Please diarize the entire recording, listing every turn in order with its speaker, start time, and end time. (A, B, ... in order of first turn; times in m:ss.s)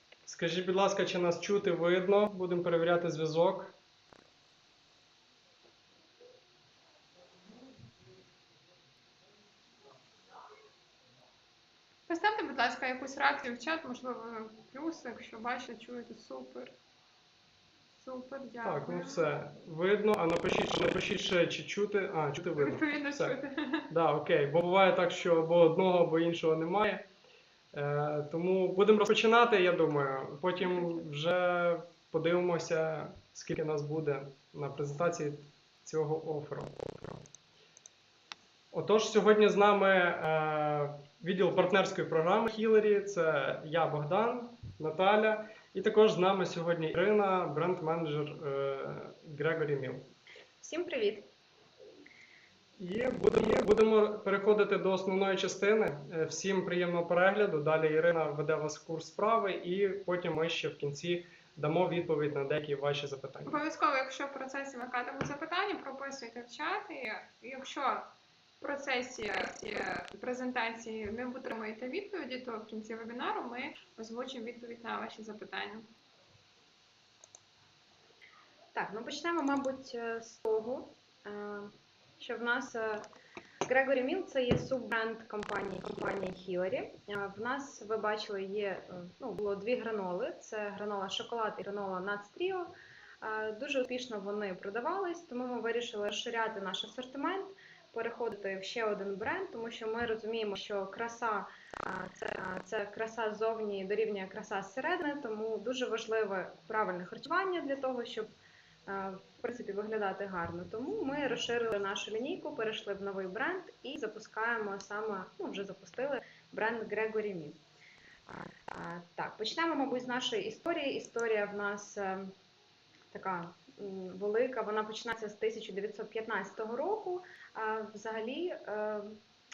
0:00.2-0:03.7 A
0:12.1-0:16.7 B
0:18.0-0:19.3 B
0:18.6-0:23.4 A
0:22.6-0:23.9 B
0:23.9-0:27.0 A
0:27.7-0:37.2 A
0:38.7-0:50.1 A
0:50.6-0:51.3 C
0:52.8-1:03.5 A
1:03.5-1:15.9 B
1:18.7-1:23.0 C
1:23.6-1:48.3 C
1:48.8-1:57.6 C
1:58.3-2:02.3 C
2:03.1-2:09.2 C